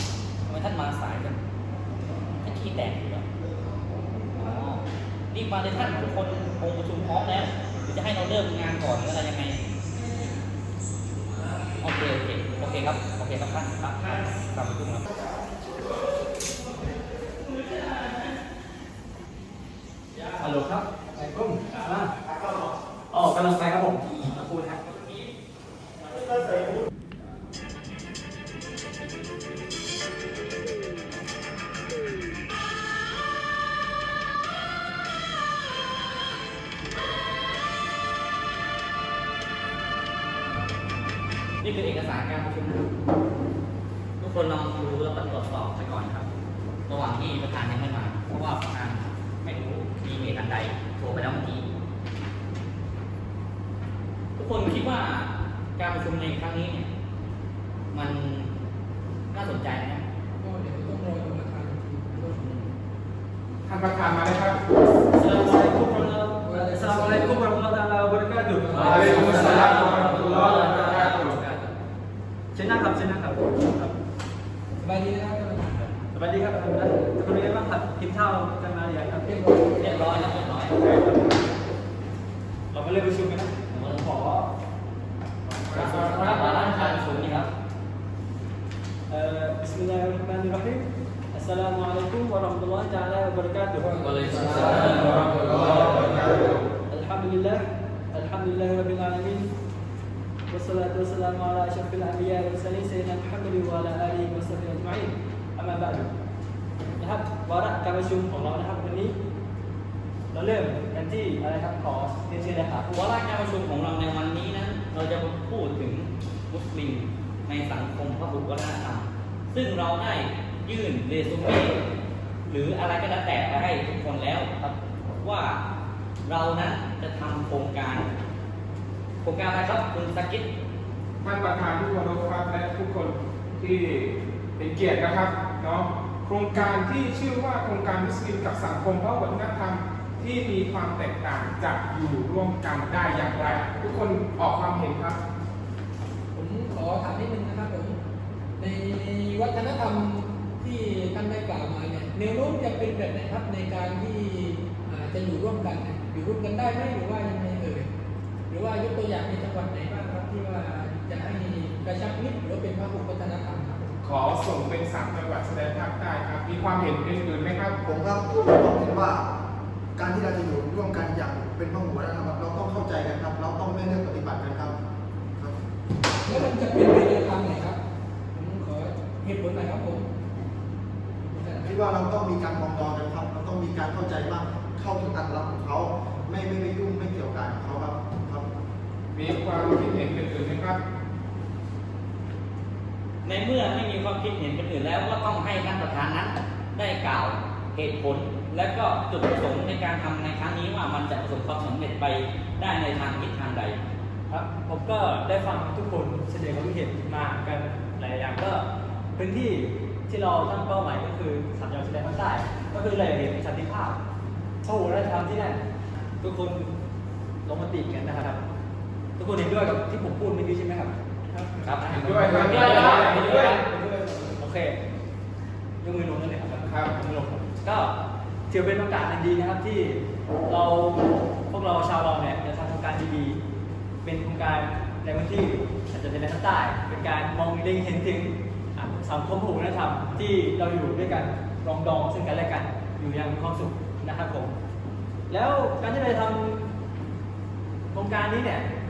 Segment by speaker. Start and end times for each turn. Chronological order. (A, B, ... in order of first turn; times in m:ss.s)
0:00.5-0:01.4 A
0:02.4-0:03.2 A
0:04.3-0:09.6 A
0:11.8-0:15.0 A
0:20.4-0:22.1 B
0:23.1-0:24.8 B
0:41.6-0:42.9 A
0:44.2-0:46.3 A
0:46.9-0:51.7 A
0:54.4-0:56.9 A
0:57.9-0:58.5 A
0:59.3-1:00.0 A
1:00.4-1:02.4 C
1:02.1-1:02.7 A
1:03.6-1:04.6 D
1:05.1-1:11.1 B
1:06.4-1:07.5 C
1:08.6-1:09.5 C
1:08.8-1:11.7 A
1:08.8-1:11.4 D
1:12.5-1:14.0 B
1:14.8-1:15.9 C
1:16.1-1:21.4 B
1:19.2-1:20.0 C
1:19.8-1:20.8 A
1:22.7-1:24.5 B
1:25.6-1:27.5 A
1:25.7-1:26.1 D
1:26.0-1:26.6 C
1:29.1-1:35.1 B
1:34.0-1:35.1 C
1:34.0-1:35.6 A
1:35.2-1:36.5 D
1:35.6-1:36.1 B
1:36.9-1:39.5 B
1:40.5-1:46.1 B
1:47.0-1:49.1 B
1:50.3-1:52.9 B
1:52.9-2:01.8 A
2:02.5-2:05.6 A
2:06.2-2:08.1 A
2:09.2-2:10.5 A
2:11.2-2:25.2 D
2:26.3-2:28.0 C
2:28.6-2:37.9 C
2:38.5-2:44.0 C
2:44.0-2:47.8 D
2:47.8-2:49.3 E
2:50.0-2:54.8 E
2:56.2-2:57.8 C
2:58.3-3:00.0 C
3:01.2-3:01.7 C
3:01.6-3:08.5 E
3:09.1-3:10.8 D
3:13.2-3:23.8 A
3:24.3-3:28.6 B
3:29.2-3:34.0 B
3:34.6-3:35.6 B
3:36.2-3:36.7 B
3:37.4-3:38.4 B
3:39.2-3:40.9 B
3:41.6-3:43.6 A
3:41.8-3:43.7 B
3:41.8-3:43.6 D
3:44.4-3:44.8 B
3:45.8-3:47.9 B
3:46.7-3:46.9 D
3:48.5-3:53.4 B
3:54.0-4:04.5 B
4:05.3-4:06.7 B
4:07.9-4:08.7 B